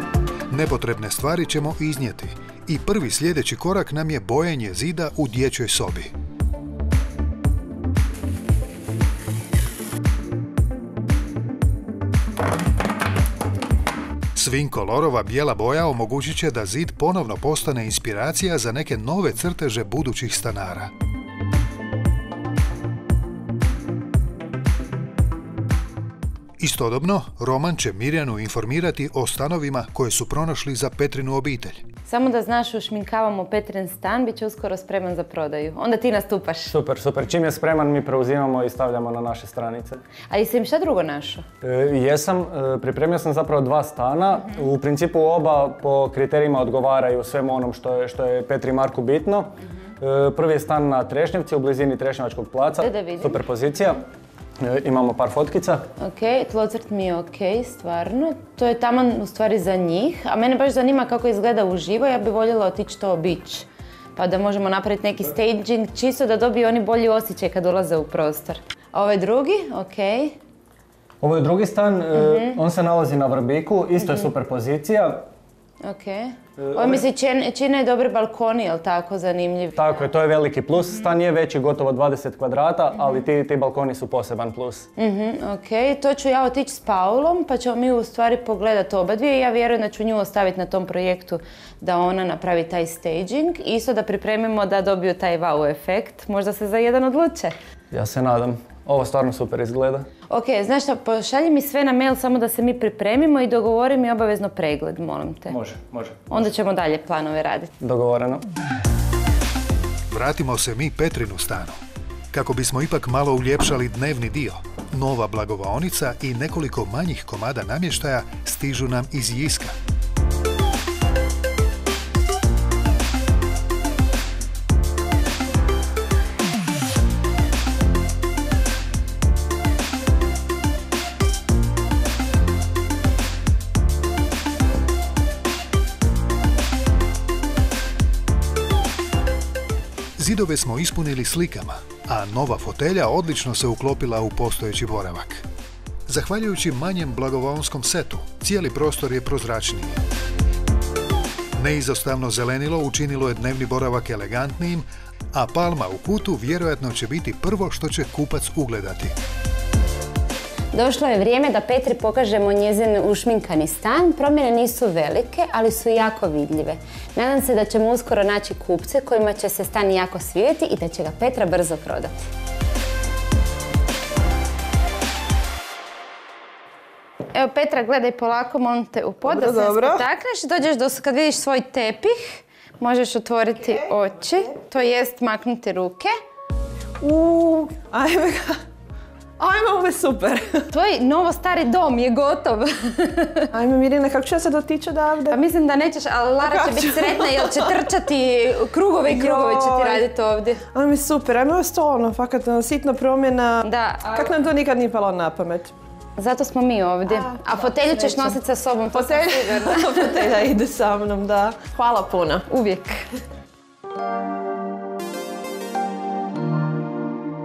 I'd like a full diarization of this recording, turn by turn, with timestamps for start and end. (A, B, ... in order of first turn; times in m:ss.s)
0:00.5-0:06.1 A
0:14.3-0:20.9 A
0:26.6-0:31.8 A
0:32.1-0:36.7 B
0:36.7-0:40.0 C
0:40.3-0:41.4 B
0:41.6-0:54.0 C
0:52.8-0:53.4 B
0:54.6-0:55.8 C
0:56.0-1:10.4 B
1:11.2-1:15.3 C
1:12.1-1:12.6 B
1:15.8-1:19.8 B
1:16.6-1:17.0 C
1:19.8-1:24.9 C
1:25.0-1:37.5 B
1:37.9-1:40.1 C
1:40.3-1:45.6 B
1:45.5-1:46.3 C
1:46.3-1:47.7 B
1:47.8-1:48.4 C
1:50.1-1:51.8 A
1:52.3-1:59.8 A
2:20.2-2:25.4 A
2:26.1-2:30.0 A
2:31.6-2:39.1 A
2:40.7-2:52.2 B
2:57.3-3:06.1 B
2:59.3-3:00.0 D
3:07.0-3:08.6 D
3:09.4-3:10.7 D
3:10.7-3:13.5 B
3:13.5-3:15.4 D
3:15.3-3:20.6 B
3:16.4-3:17.8 D
3:19.0-3:20.0 D
3:20.7-3:25.7 D
3:23.6-3:24.3 B
3:26.2-3:30.1 B
3:27.1-3:28.4 D
3:28.9-3:32.5 D
3:32.5-3:33.0 B